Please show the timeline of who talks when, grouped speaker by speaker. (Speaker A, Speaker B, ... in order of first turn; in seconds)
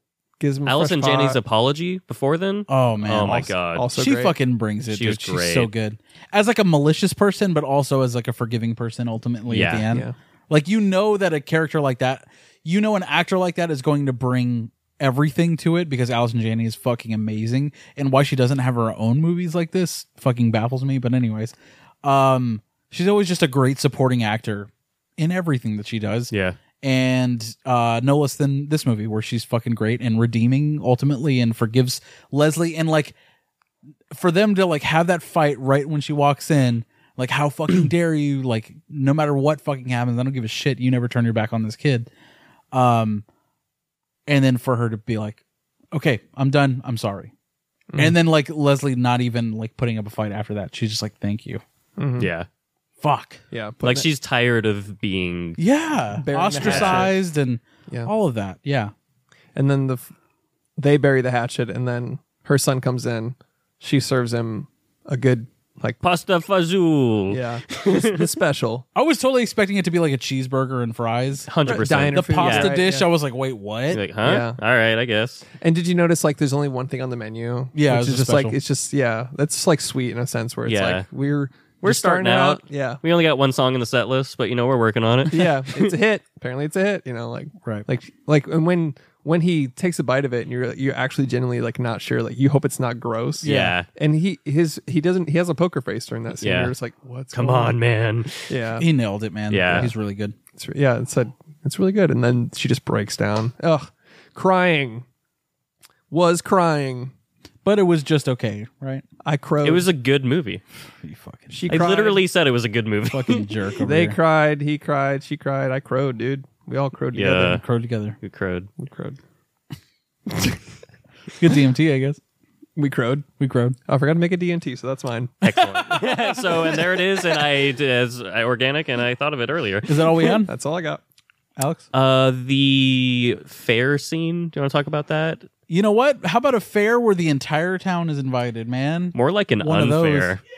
Speaker A: 0.4-1.4, 3.7-4.4, 9.9-10.2, 47.9-48.1, 52.0-52.3, 53.5-54.1, 56.2-57.1, 59.5-60.1, 60.8-66.0, 67.3-68.8, 71.7-73.1, 74.2-74.6, 75.6-83.0, 85.3-97.8, 98.5-98.9, 100.6-105.1, 106.1-107.1, 109.2-109.9, 111.5-112.2, 113.8-117.6, 118.8-119.2, 120.3-120.6, 122.8-123.3, 123.8-125.4, 130.3-131.0
Speaker B: 0.7-3.9, 4.9-5.7, 9.5-9.9, 26.3-26.6, 52.2-52.5, 53.8-55.6, 56.5-57.1, 66.0-68.2, 71.5-72.8, 73.9-75.5, 80.7-81.1, 81.8-85.9, 93.4-93.9, 96.4-96.7, 97.3-98.5, 99.5-99.9, 109.6-110.6, 111.7-113.5, 117.1-117.6, 118.2-118.7, 125.4-130.1, 131.9-135.5, 139.1-140.4
Speaker C: 2.7-33.1, 34.1-42.1, 42.7-43.2, 44.3-45.4, 45.9-47.3, 48.0-51.6, 53.0-53.4, 55.6-58.9, 69.0-71.5, 72.1-74.0, 77.8-78.6, 93.4-93.8, 98.8-100.3, 107.7-109.0, 111.0-111.7, 113.1-114.2, 117.5-118.2, 121.4-122.2, 123.4-123.8, 125.5-126.8, 129.9-130.5, 131.6-131.9, 135.7-140.4